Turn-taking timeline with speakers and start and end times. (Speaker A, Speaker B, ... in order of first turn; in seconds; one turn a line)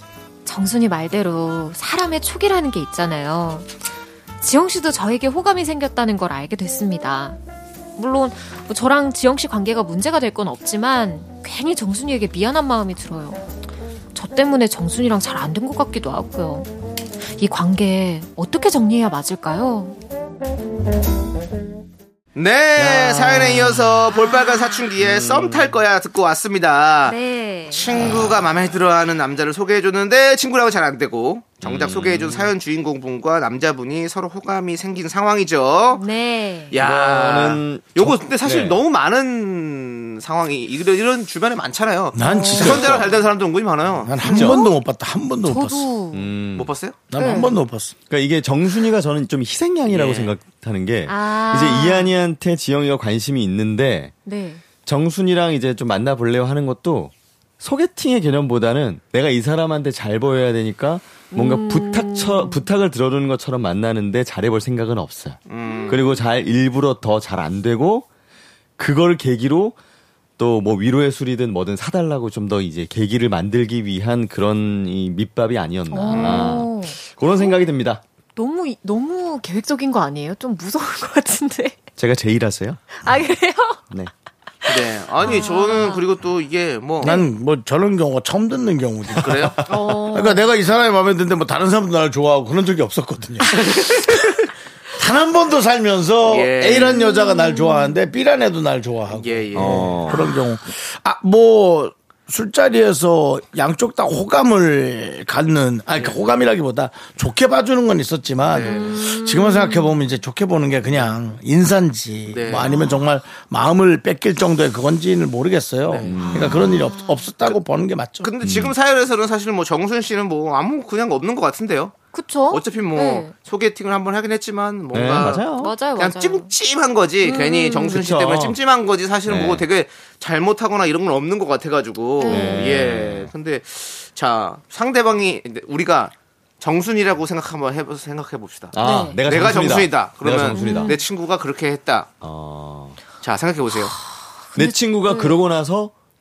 Speaker A: 0.5-3.7
Speaker A: 4.4-7.4
Speaker A: 8.0-13.4
Speaker A: 14.1-16.7
Speaker A: 17.3-20.0
Speaker B: 22.4-27.2
Speaker C: 22.8-23.7
Speaker A: 24.1-24.8
Speaker D: 25.0-25.7
Speaker A: 27.1-28.0
Speaker B: 27.7-36.0
Speaker D: 28.0-28.3
Speaker D: 31.6-32.5
Speaker A: 35.9-36.8
Speaker B: 36.7-44.4
Speaker D: 36.7-38.8
Speaker C: 42.1-43.1
Speaker A: 42.2-43.0
Speaker C: 44.0-45.9
Speaker A: 44.2-44.8
Speaker A: 45.4-46.3
Speaker D: 46.1-46.7
Speaker B: 46.5-47.0
Speaker C: 47.1-48.0
Speaker A: 47.1-47.6
Speaker D: 48.1-54.1
Speaker B: 49.9-50.4
Speaker A: 51.1-52.1
Speaker A: 54.2-54.6
Speaker D: 54.8-68.1
Speaker A: 61.3-62.7
Speaker B: 65.5-66.1
Speaker A: 65.6-66.1
Speaker D: 68.8-69.8
Speaker D: 70.4-78.0
Speaker A: 75.9-77.7
Speaker B: 76.1-76.5
Speaker A: 78.4-81.9
Speaker D: 82.0-83.2
Speaker A: 82.9-83.9
Speaker A: 84.6-86.1
Speaker B: 84.7-87.2
Speaker C: 87.0-93.8
Speaker B: 89.1-89.6
Speaker A: 89.7-90.5
Speaker C: 95.0-118.3
Speaker B: 96.2-97.0
Speaker A: 96.9-98.0
Speaker B: 99.1-100.0
Speaker D: 99.5-100.3
Speaker B: 108.5-108.9
Speaker A: 108.5-110.1
Speaker B: 112.3-112.7
Speaker A: 112.6-113.0
Speaker B: 115.9-116.5
Speaker D: 116.1-116.8
Speaker A: 116.6-117.3
Speaker B: 118.2-122.0
Speaker D: 118.4-118.7
Speaker A: 122.1-123.3
Speaker B: 122.5-142.1
Speaker D: 124.9-125.8
Speaker A: 125.5-126.5
Speaker A: 127.2-128.0
Speaker D: 127.9-128.6
Speaker D: 129.3-129.7
Speaker A: 132.2-132.8
Speaker D: 132.3-133.3
Speaker D: 138.7-141.0
Speaker A: 138.8-139.2
Speaker A: 140.5-141.0
Speaker D: 142.2-143.0
Speaker B: 143.2-143.9
Speaker A: 143.9-145.4
Speaker D: 144.6-145.9